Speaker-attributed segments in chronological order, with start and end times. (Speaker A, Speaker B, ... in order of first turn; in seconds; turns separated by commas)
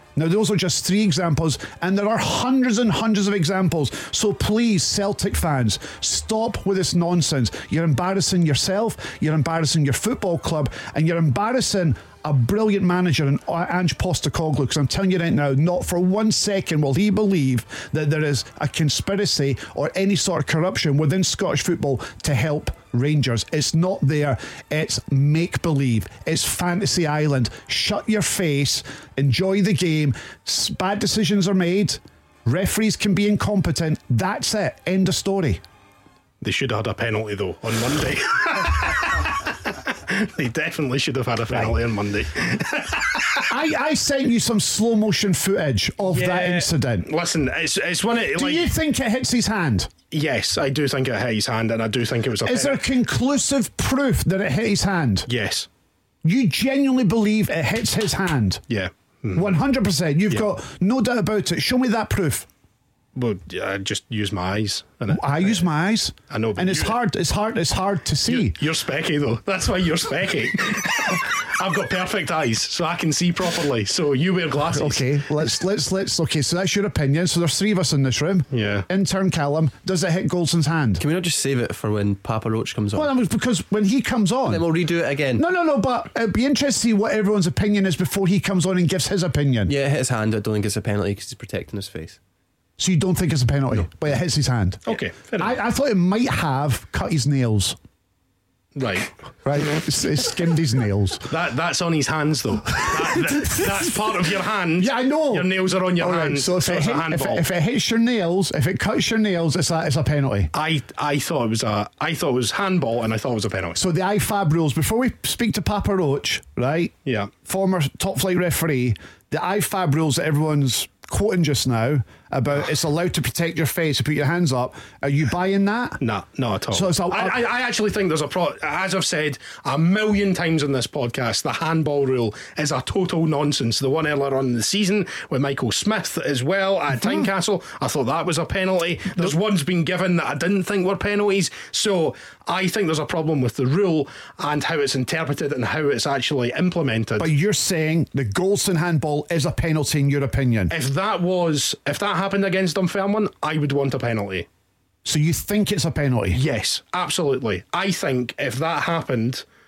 Speaker A: 0.2-35.6, Speaker B: 36.4-43.5, Speaker A: 43.5-47.1, Speaker B: 46.1-48.7, Speaker A: 48.4-49.9, Speaker B: 50.1-52.8, Speaker A: 52.4-55.3, Speaker B: 55.3-55.7, Speaker A: 56.2-58.6, Speaker B: 58.7-59.6, Speaker A: 59.4-62.5, Speaker B: 63.1-65.6, Speaker A: 65.1-68.6, Speaker B: 66.3-67.0, Speaker B: 68.3-75.2, Speaker A: 74.7-81.0, Speaker B: 78.5-78.9, Speaker C: 81.0-83.1, Speaker A: 82.9-84.7, Speaker C: 84.5-85.5, Speaker A: 85.3-89.7, Speaker C: 89.7-92.2, Speaker A: 92.8-97.8, Speaker B: 94.9-95.6, Speaker B: 98.8-99.1, Speaker A: 99.5-101.3, Speaker B: 101.3-107.5, Speaker A: 104.8-110.5, Speaker B: 110.5-113.8, Speaker A: 113.8-126.0, Speaker B: 117.0-117.3, Speaker B: 126.0-147.3, Speaker A: 126.7-127.4, Speaker A: 147.2-150.7, Speaker B: 150.7-154.5, Speaker A: 155.1-156.4, Speaker B: 156.3-159.4